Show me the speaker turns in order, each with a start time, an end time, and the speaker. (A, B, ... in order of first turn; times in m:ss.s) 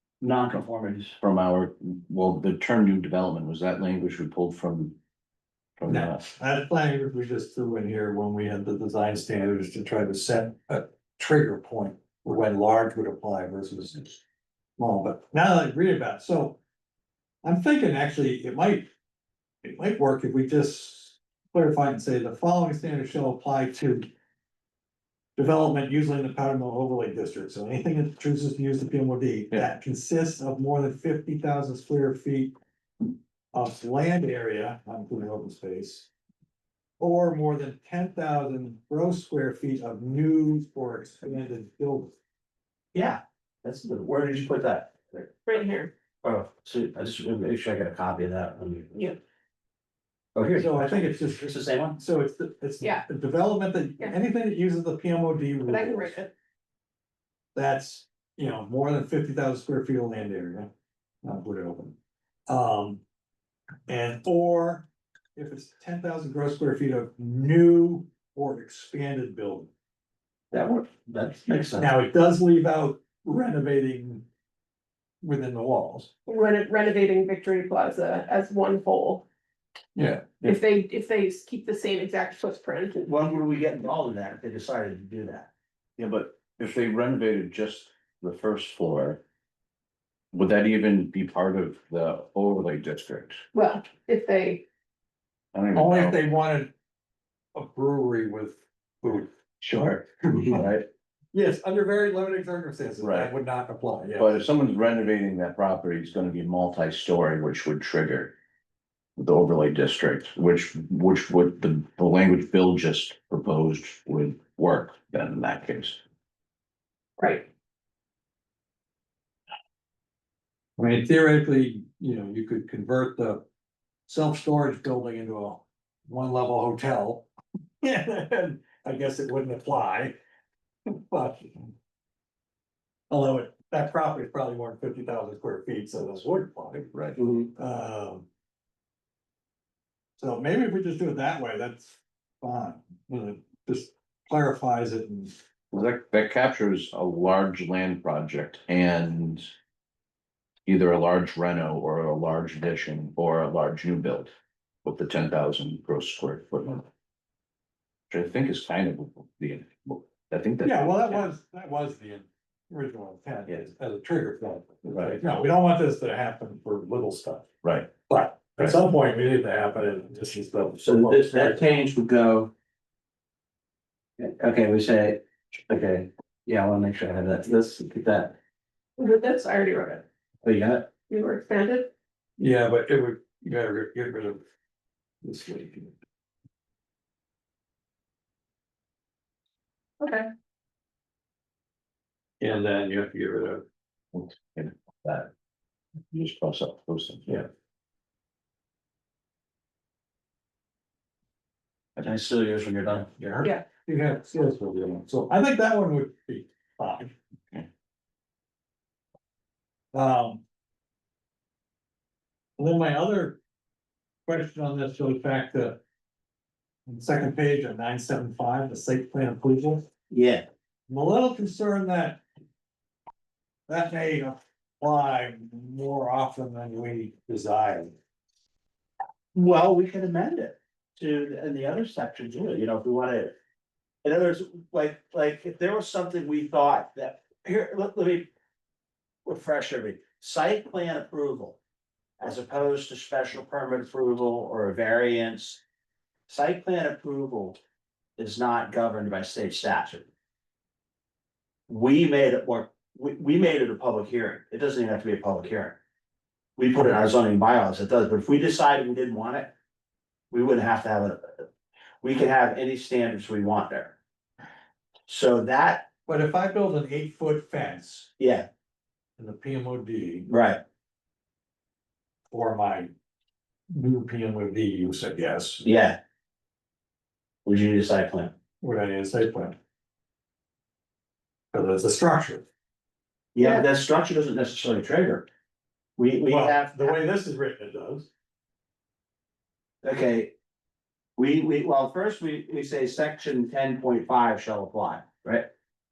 0:00.2-0:01.2 A
0:01.2-0:05.0 B
0:05.8-0:06.3 B
0:05.8-0:14.2 C
0:14.8-0:16.6 C
0:17.4-0:18.9 C
0:19.6-0:24.1 C
0:25.4-0:32.5 C
0:33.5-0:36.1 C
0:37.0-0:42.1 C
0:42.9-0:45.3 A
0:45.4-0:45.9 D
0:46.2-0:48.9 A
0:48.9-0:49.2 D
0:50.3-0:52.0 A
0:50.5-0:56.2 C
0:55.6-0:56.3 D
0:57.5-1:00.7 C
1:01.2-1:02.0 C
1:02.5-1:03.0 C
1:03.9-1:09.7 C
1:10.5-1:11.9 A
1:11.8-1:14.2 C
1:15.2-1:16.1 C
1:16.2-1:19.2 D
1:19.9-1:20.6 C
1:20.4-1:23.0 D
1:23.0-1:25.5 A
1:26.0-1:29.2 B
1:30.3-1:33.4 B
1:33.5-1:34.6 D
1:35.5-1:36.2 B
1:35.7-1:36.7 C
1:37.5-1:40.6 C
1:39.6-1:40.9 B
1:41.3-1:44.4 C
1:43.0-1:43.3 B
1:44.2-1:48.3 B
1:49.2-1:56.0 B
1:57.2-1:57.5 D
2:00.8-2:03.4 C
2:04.1-2:07.3 C
2:07.8-2:10.2 C
2:10.9-2:11.7 C
2:13.1-2:16.8 C
2:16.8-2:17.2 B
2:17.2-2:17.5 A
2:17.6-2:18.2 C
2:20.2-2:25.4 C
2:25.7-2:29.5 B
2:30.6-2:34.3 B
2:34.8-2:36.8 B
2:38.1-2:41.2 B
2:40.6-2:47.5 C
2:44.9-2:45.2 B
2:47.6-2:47.9 B
2:48.1-2:51.6 C
2:50.8-2:52.5 A
2:54.2-2:58.4 A
2:59.0-3:00.0 D
3:00.4-3:00.9 A
3:01.1-3:01.9 D
3:02.4-3:04.4 C
3:05.2-3:05.9 C
3:10.0-3:10.3 D
3:12.4-3:13.6 C
3:14.1-3:15.3 B
3:16.1-3:17.4 B
3:22.0-3:23.1 A
3:23.1-3:27.1 C
3:29.9-3:30.4 C
3:32.6-3:33.4 C
3:34.3-3:35.8 C
3:36.9-3:39.9 C
3:40.1-3:40.4 A
3:40.9-3:42.2 C
3:43.7-3:47.9 C
3:49.3-3:53.4 A
3:54.0-3:58.3 A
3:59.2-4:01.6 A
4:02.2-4:05.6 A
4:06.3-4:07.6 A
4:08.2-4:10.1 A
4:11.7-4:15.8 A
4:16.6-4:19.5 A
4:20.3-4:21.4 A
4:22.0-4:24.0 A
4:25.1-4:25.9 A
4:26.0-4:28.1 C
4:28.2-4:28.5 A
4:29.2-4:30.3 C
4:30.3-4:30.6 A
4:32.3-4:32.9 C
4:33.7-4:35.6 C
4:35.6-4:36.0 A
4:37.4-4:38.3 A
4:38.6-4:39.6 C
4:41.5-4:42.4 C
4:43.3-4:45.3 A
4:46.0-4:46.9 A
4:46.3-4:48.1 C
4:49.8-4:50.3 A
4:51.2-4:55.5 A